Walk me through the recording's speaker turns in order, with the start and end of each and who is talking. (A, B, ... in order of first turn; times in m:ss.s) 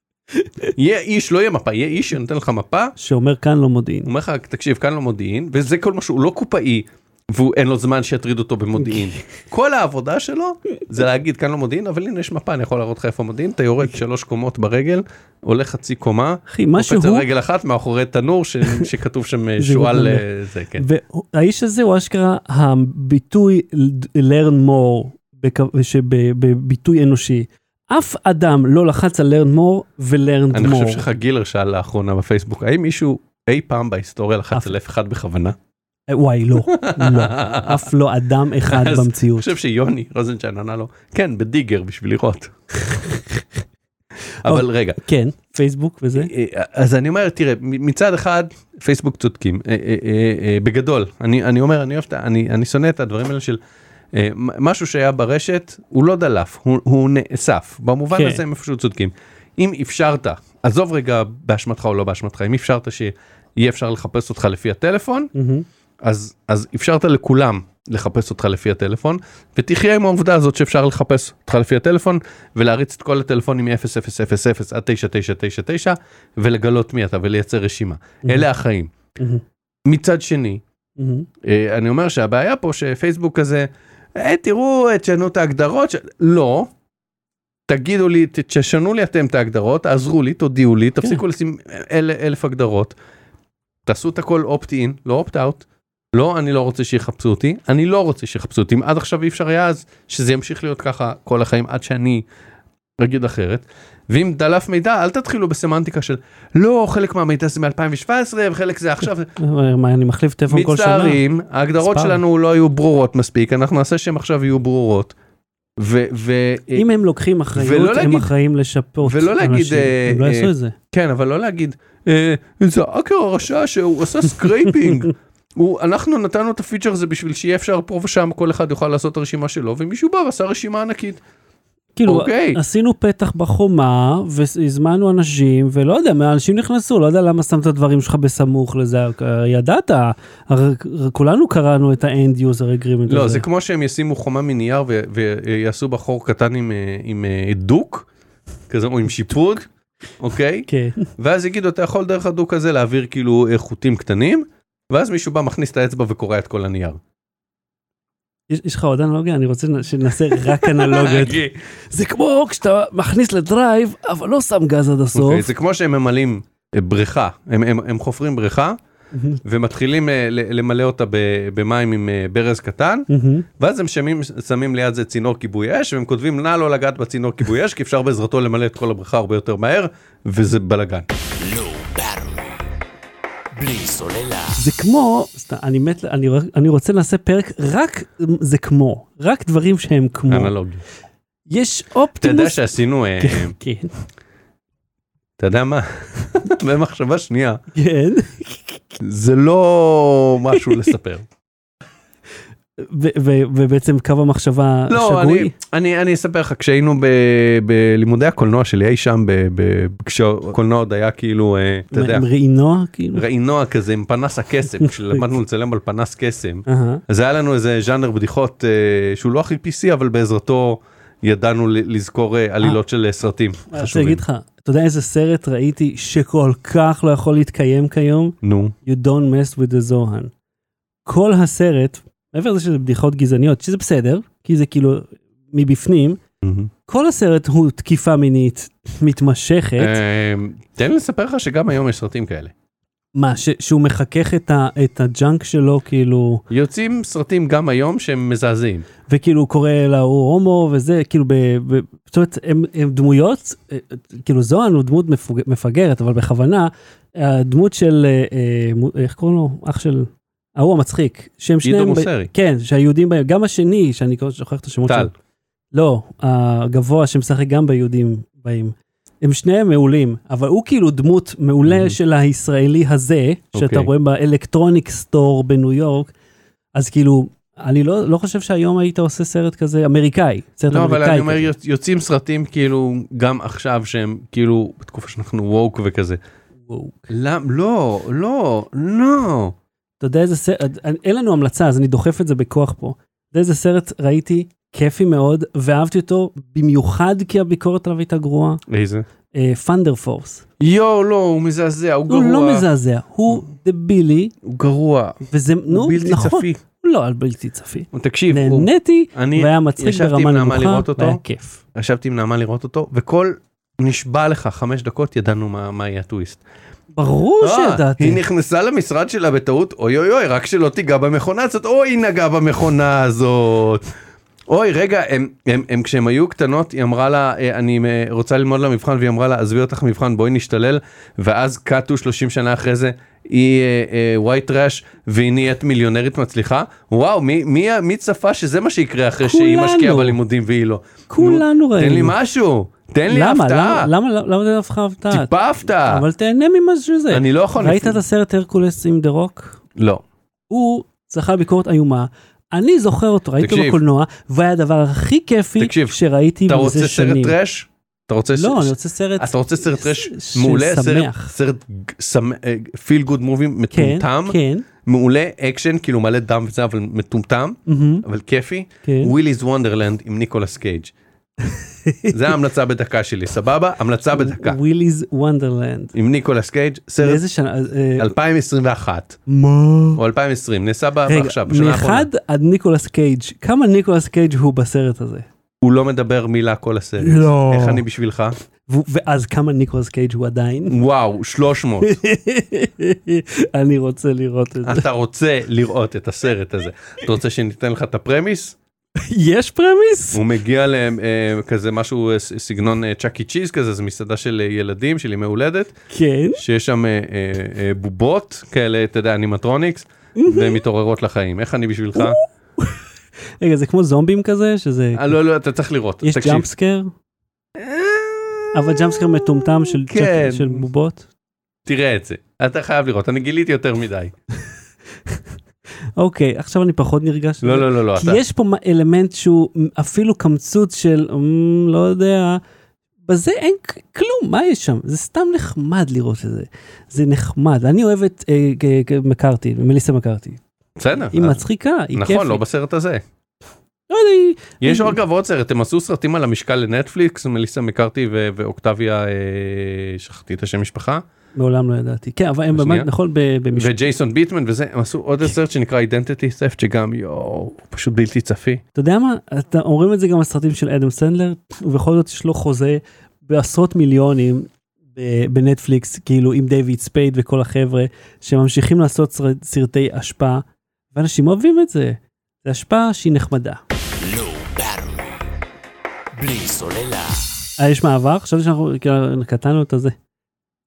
0:00.7-0:02.9 A
0:03.0-0:04.1 B
0:04.0-0:20.8 A
0:16.5-0:17.3 B
0:19.6-0:20.2 B
0:20.8-0:31.0 B
0:30.5-0:35.6 A
0:36.1-0:39.5 B
0:36.6-0:37.9 A
0:38.6-0:42.5 A
0:42.8-0:43.4 B
0:44.4-0:45.0 A
0:44.4-0:46.3 B
0:46.1-0:53.6 A
0:54.1-1:05.3 A
0:58.1-0:58.4 B
1:05.3-1:05.6 B
1:06.0-1:18.9 A
1:18.2-1:18.5 B
1:19.2-1:19.4 B
1:19.8-1:20.6 A
1:21.0-1:21.3 B
1:21.4-1:26.7 A
1:27.7-1:33.0 A
1:33.8-1:42.2 A
1:43.0-1:49.3 A
1:49.4-1:51.2 B
1:50.5-1:55.1 A
1:51.8-1:52.2 B
1:55.8-1:56.8 A
1:56.7-2:00.7 B
1:57.5-1:58.3 A
1:59.0-2:11.2 A
2:12.0-2:23.4 B
2:12.1-2:12.6 A
2:23.1-2:28.1 A
2:28.7-2:29.7 A
2:30.2-2:37.0 A
2:30.7-2:31.1 B
2:38.5-2:45.5 B
2:40.4-2:41.6 A
2:45.1-2:48.8 A
2:49.1-2:49.4 B
2:49.4-3:01.1 A
2:53.1-2:53.5 B
3:01.4-3:02.7 C
3:03.5-3:04.6 C
3:04.6-3:10.5 B
3:10.3-3:10.8 A
3:11.5-3:13.9 B
3:12.2-3:13.5 A
3:15.4-3:17.6 A
3:17.7-3:18.8 B
3:19.0-3:21.3 A
3:22.8-3:25.5 B
3:24.9-3:32.3 A
3:31.9-3:33.2 B
3:33.1-3:44.2 A
3:36.7-3:37.0 B
3:43.7-3:50.3 B
3:48.4-3:48.7 A
3:51.0-3:56.2 B
3:56.4-3:56.7 A
3:56.9-4:00.0 B
3:59.8-4:02.5 A
4:03.2-4:06.4 B
4:06.5-4:08.8 A
4:09.1-4:25.1 B
4:21.6-4:22.3 A
4:24.8-4:25.1 A
4:25.7-4:36.1 B
4:31.6-4:32.0 A
4:33.5-4:33.9 A
4:36.7-4:41.5 B
4:40.7-4:46.2 A
4:46.6-4:47.1 B
4:47.1-4:49.6 A
4:50.0-4:58.6 B
4:58.7-4:59.0 A
4:59.3-5:00.4 B
5:00.6-5:02.6 A
5:02.1-5:04.3 B
5:04.4-5:06.6 A
5:05.2-5:11.6 B
5:07.9-5:11.2 A
5:11.7-5:16.4 A
5:16.9-5:18.2 B
5:17.4-5:23.9 A
5:24.5-5:43.9 A
5:39.2-5:40.2 B
5:41.1-5:42.2 B
5:43.1-5:49.6 B
5:45.1-5:46.0 A
5:47.1-5:48.0 A
5:49.8-5:50.0 A
5:50.5-5:57.3 B
5:53.4-5:53.8 A
5:55.6-6:10.9 A
5:58.3-6:01.3 B
6:03.7-6:04.7 B
6:07.7-6:08.0 B
6:08.8-6:09.1 B
6:11.5-6:12.3 B
6:12.1-6:14.6 A
6:14.1-6:15.9 B
6:15.9-6:17.2 A
6:17.0-6:18.1 B
6:18.0-6:19.2 A
6:19.3-6:20.0 B
6:19.9-6:22.1 A
6:21.0-6:25.2 B
6:25.6-6:28.4 A
6:27.0-6:27.8 B
6:28.7-6:30.8 B
6:30.7-6:32.0 A
6:31.8-6:34.9 B
6:34.6-6:38.6 A
6:39.0-6:40.2 B
6:40.1-6:45.8 A
6:45.9-6:46.4 B
6:46.4-6:52.2 A
6:50.2-6:50.6 B
6:51.9-6:52.8 B
6:53.4-6:55.2 B
6:55.0-6:56.5 A
6:56.0-6:56.9 B
6:57.6-7:00.6 A
6:58.5-7:01.0 B
7:01.6-7:04.1 A
7:06.0-7:12.4 B
7:07.4-7:08.2 A
7:13.0-7:20.4 B
7:20.8-7:23.0 A
7:21.1-7:22.4 B
7:23.9-7:25.0 B
7:24.6-7:31.0 A
7:31.4-7:33.8 B
7:32.5-7:32.9 A
7:33.6-7:38.6 A
7:38.7-7:53.6 B
7:54.0-7:55.2 C
7:56.1-7:57.3 C
7:57.6-7:59.9 B